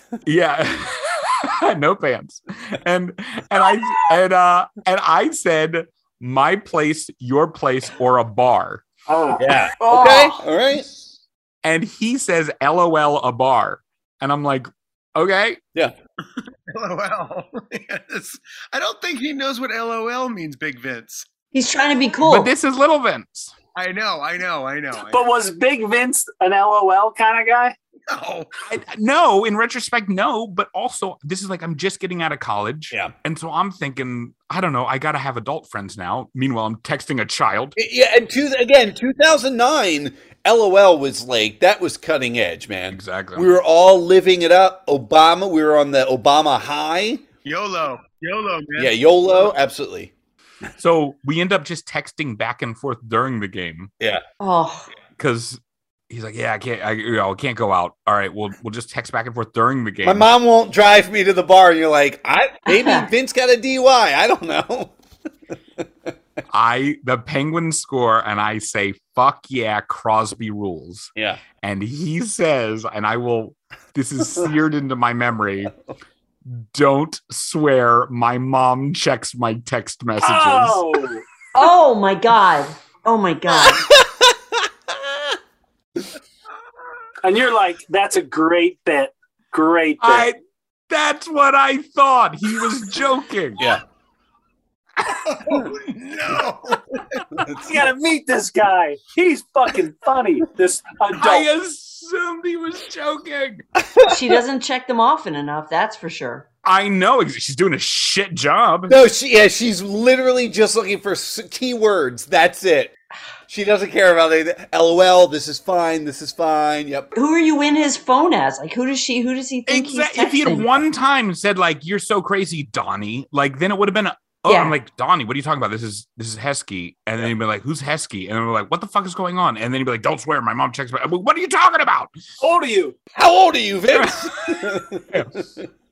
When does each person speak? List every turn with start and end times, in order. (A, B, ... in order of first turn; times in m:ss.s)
0:00.2-0:08.8 A
0:09.1-0:09.6 B
0:09.4-0:11.0 C
0:09.8-0:10.4 D
0:11.6-0:15.6 A
0:16.7-0:21.3 E
0:21.5-0:22.5 D
0:22.2-0:23.6 A
0:23.8-0:25.2 E
0:25.0-0:27.8 B
0:28.1-0:28.5 E
0:28.7-0:37.8 A
0:37.8-0:47.2 C
0:42.9-0:43.6 A
0:47.4-0:49.0 E
0:48.8-0:50.1 C
0:50.8-0:53.9 A
0:54.4-0:54.9 D
0:55.2-1:00.3 A
1:00.0-1:05.0 C
1:02.7-1:03.1 D
1:06.5-1:15.7 A
1:11.2-1:11.4 C
1:16.4-1:20.8 A
1:20.2-1:21.2 B
1:21.6-1:23.9 D
1:23.6-1:25.3 C
1:27.2-1:30.3 B
1:30.0-1:30.4 A
1:30.9-1:33.7 A
1:35.1-1:37.2 E
1:37.4-1:37.7 C
1:37.6-1:41.5 B
1:41.2-1:43.6 A
1:43.8-1:44.4 C
1:44.1-1:46.5 D
1:46.6-1:49.0 A
1:48.9-1:52.9 C
1:53.5-1:57.1 C
1:57.2-2:00.7 D
1:59.7-2:12.1 A
2:04.5-2:04.8 D
2:12.4-2:13.0 B
2:13.2-2:15.5 C
2:13.9-2:15.4 A